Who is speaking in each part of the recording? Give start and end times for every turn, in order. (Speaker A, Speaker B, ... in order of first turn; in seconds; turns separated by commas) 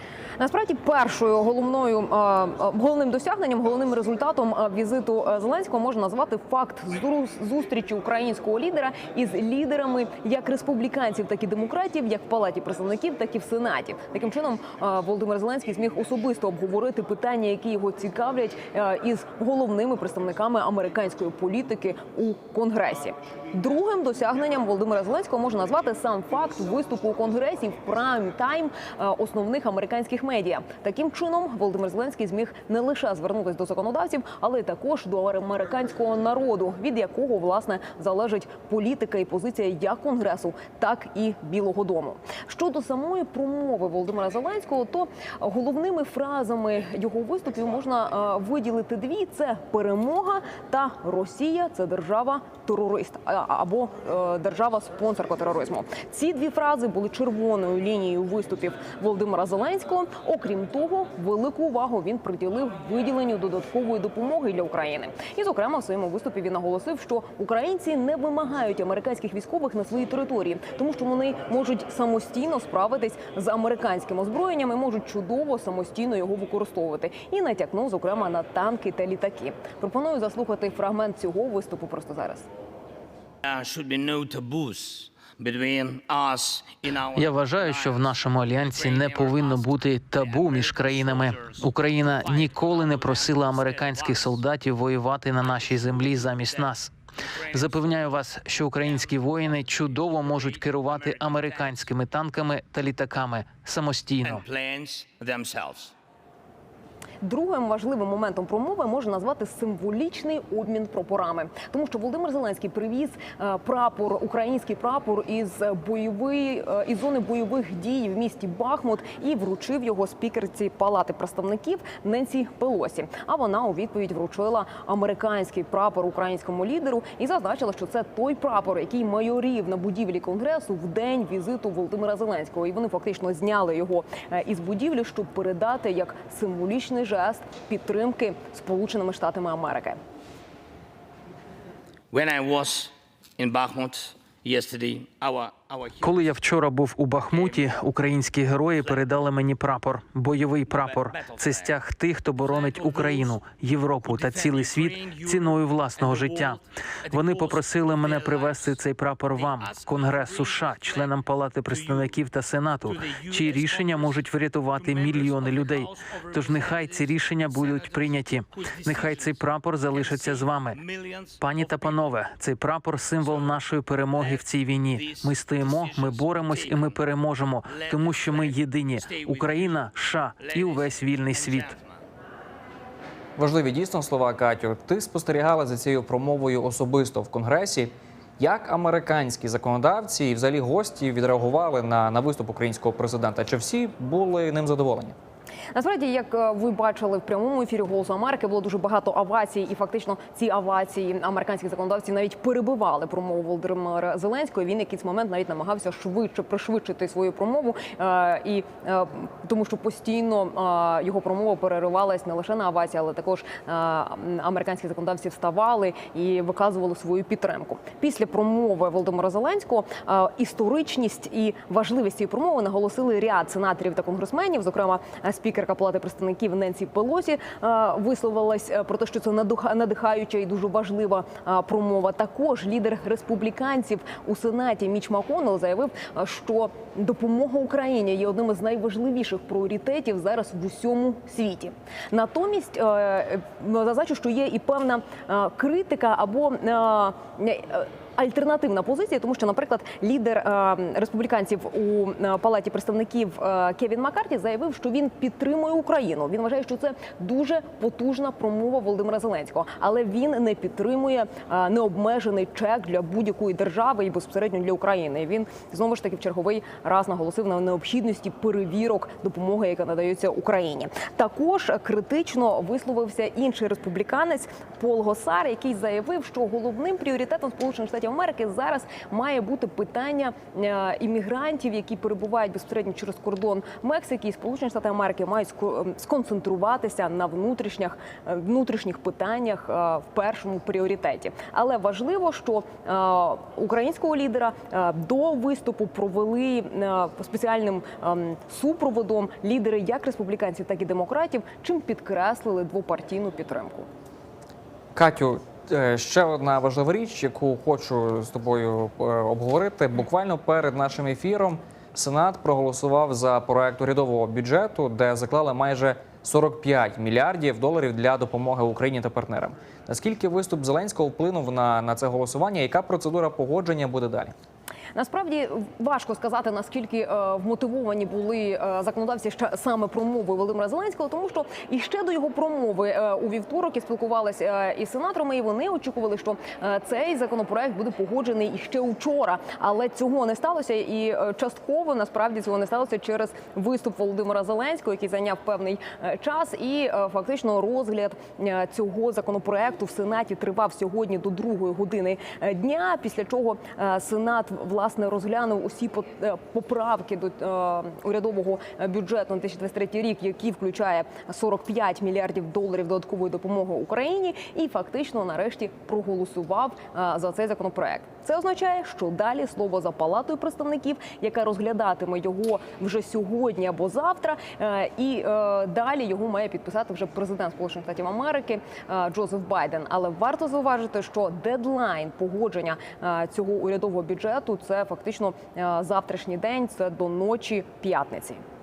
Speaker A: 0.4-82.5, Speaker B: 83.4-94.4, Speaker C: 87.1-96.9, Speaker B: 95.4-98.2, Speaker C: 97.5-104.4, Speaker B: 98.8-101.9, Speaker B: 104.2-105.9, Speaker A: 107.2-140.0, Speaker B: 142.1-146.3, Speaker C: 146.0-156.6, Speaker B: 147.3-147.6, Speaker B: 150.7-151.8, Speaker B: 152.4-153.4, Speaker B: 154.0-158.8, Speaker C: 157.1-170.8, Speaker B: 159.3-161.2, Speaker B: 161.7-162.1, Speaker B: 162.8-164.2, Speaker B: 164.8-169.4, Speaker B: 169.9-172.1, Speaker C: 171.4-181.8, Speaker B: 173.2-173.6, Speaker B: 174.2-177.0, Speaker B: 177.7-179.8, Speaker B: 180.4-182.0, Speaker D: 183.4-195.2, Speaker A: 195.7-303.9, Speaker D: 304.9-324.3, Speaker A: 324.9-388.4